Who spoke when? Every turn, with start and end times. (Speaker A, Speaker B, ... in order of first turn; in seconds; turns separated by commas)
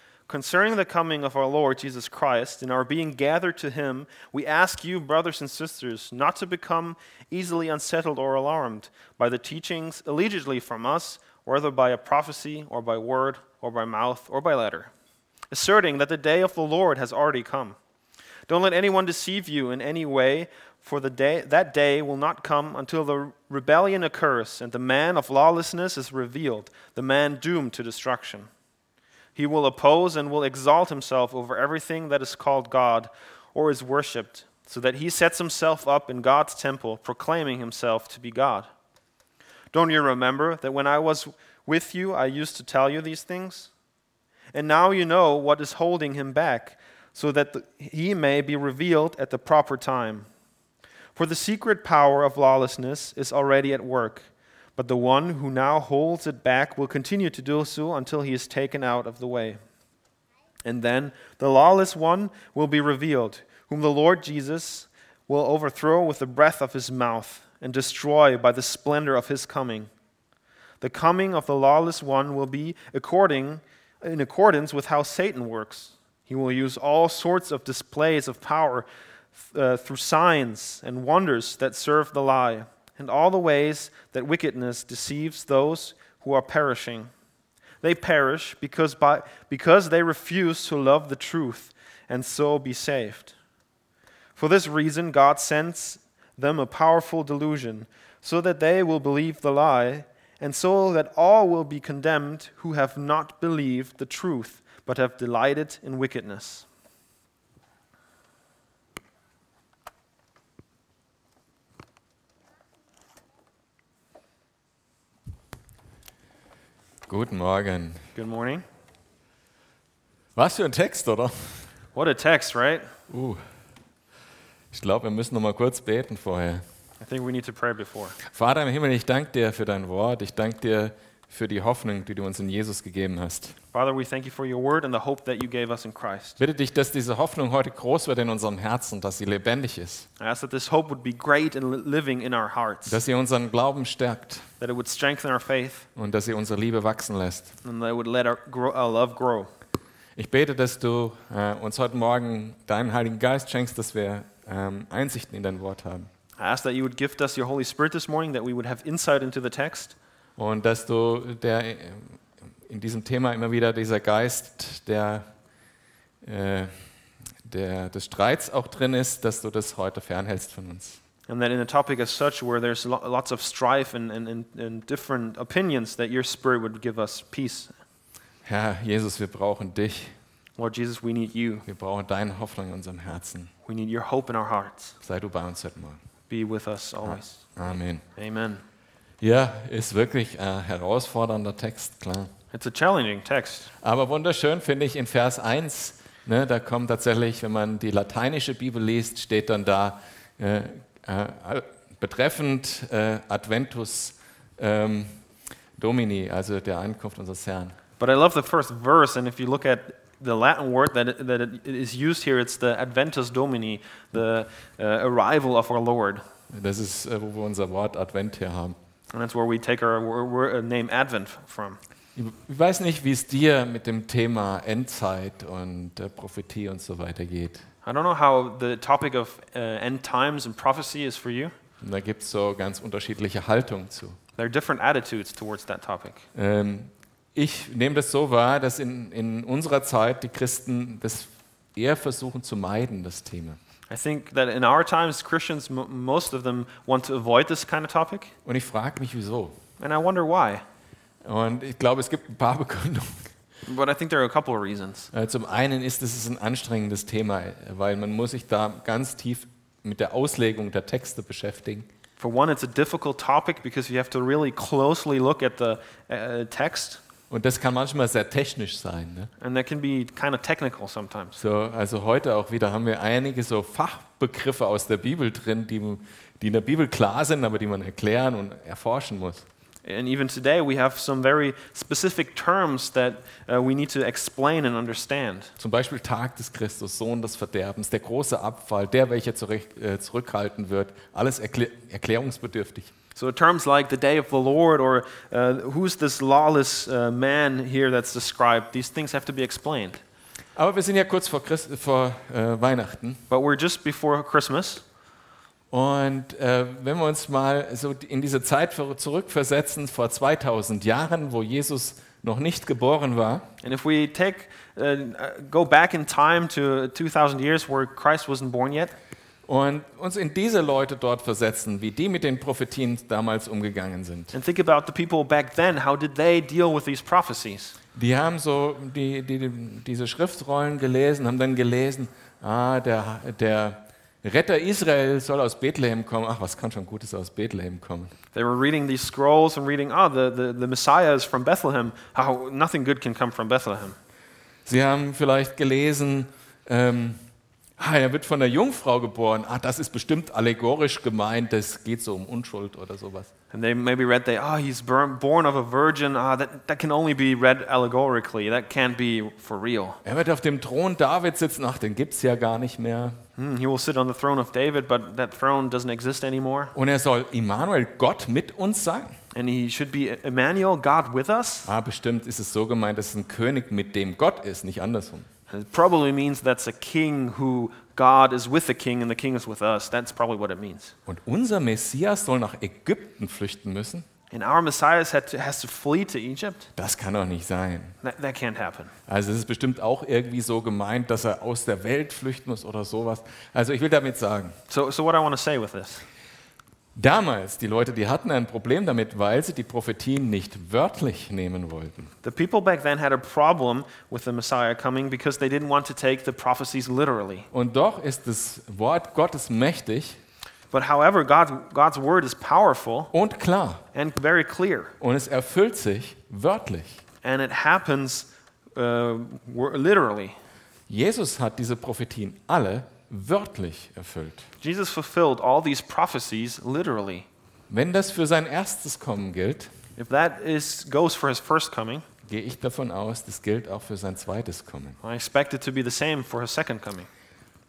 Speaker A: 0.3-14.9, Speaker A: 15.5-17.8, Speaker A: 18.5-28.5, Speaker A: 29.3-38.7, Speaker A: 39.7-43.7, Speaker A: 44.5-50.3, Speaker A: 51.1-59.6, Speaker A: 60.6-69.9, Speaker A: 70.8-87.1, Speaker A: 87.8-93.3, Speaker A: 94.3-106.7, Speaker B: 117.1-118.0, Speaker A: 118.1-118.6, Speaker B: 120.3-121.7, Speaker A: 121.9-122.9, Speaker B: 123.1-123.4, Speaker B: 124.7-126.6, Speaker A: 127.0-128.2, Speaker B: 128.2-133.6, Speaker A: 133.7-136.4, Speaker B: 136.4-140.1, Speaker A: 140.2-143.0, Speaker B: 142.8-144.5, Speaker A: 144.6-145.8, Speaker B: 145.9-147.5, Speaker A: 147.6-149.5, Speaker B: 150.2-156.1, Speaker A: 156.4-159.9, Speaker B: 160.4-165.2, Speaker B: 166.2-166.7, Speaker B: 167.4-171.0, Speaker A: 171.3-177.7, Speaker B: 178.4-180.1, Speaker A: 180.6-181.6, Speaker B: 181.7-183.5, Speaker A: 183.7-184.9, Speaker B: 185.0-186.0, Speaker A: 186.3-187.4, Speaker B: 187.0-188.0, Speaker A: 188.2-188.6, Speaker B: 189.2-192.3, Speaker A: 192.5-193.7, Speaker B: 193.8-205.2, Speaker B: 205.8-207.8, Speaker A: 208.0-216.2, Speaker B: 216.5-218.8, Speaker A: 219.1-221.8, Speaker B: 222.2-227.7, Speaker A: 227.8-231.5, Speaker B: 231.8-234.2, Speaker A: 234.4-236.2, Speaker B: 236.3-243.6, Speaker A: 243.9-248.3, Speaker B: 248.4-249.6, Speaker A: 249.8-250.6, Speaker B: 251.2-253.3, Speaker A: 253.7-255.1, Speaker B: 255.1-261.9, Speaker A: 262.2-267.0, Speaker B: 267.3-269.3, Speaker A: 269.4-271.4, Speaker B: 271.4-279.4, Speaker A: 279.8-285.5, Speaker B: 285.6-292.9, Speaker A: 293.1-300.0, Speaker B: 300.6-303.2, Speaker A: 303.3-304.8, Speaker B: 305.7-313.5, Speaker A: 313.6-318.9, Speaker B: 319.5-324.3, Speaker A: 324.3-327.8, Speaker B: 327.9-338.1, Speaker A: 338.3-344.0, Speaker B: 344.6-347.2, Speaker B: 347.8-353.3, Speaker A: 353.5-360.0, Speaker B: 360.0-363.2, Speaker A: 363.4-366.7, Speaker B: 366.7-369.1, Speaker A: 369.3-371.7, Speaker B: 371.7-375.3, Speaker A: 375.5-380.9, Speaker B: 381.1-384.1, Speaker A: 384.3-386.7, Speaker B: 386.8-388.0, Speaker A: 388.0-388.9, Speaker B: 389.1-394.6, Speaker A: 394.7-396.0, Speaker B: 396.9-402.1, Speaker A: 402.2-407.5, Speaker B: 407.5-410.2, Speaker A: 410.7-413.1, Speaker B: 413.1-413.8, Speaker A: 413.9-414.9, Speaker B: 415.0-417.0, Speaker A: 417.2-420.4, Speaker B: 420.9-424.5, Speaker A: 424.6-427.3, Speaker B: 427.7-429.7, Speaker A: 430.0-432.0, Speaker B: 432.2-435.0, Speaker A: 435.0-437.1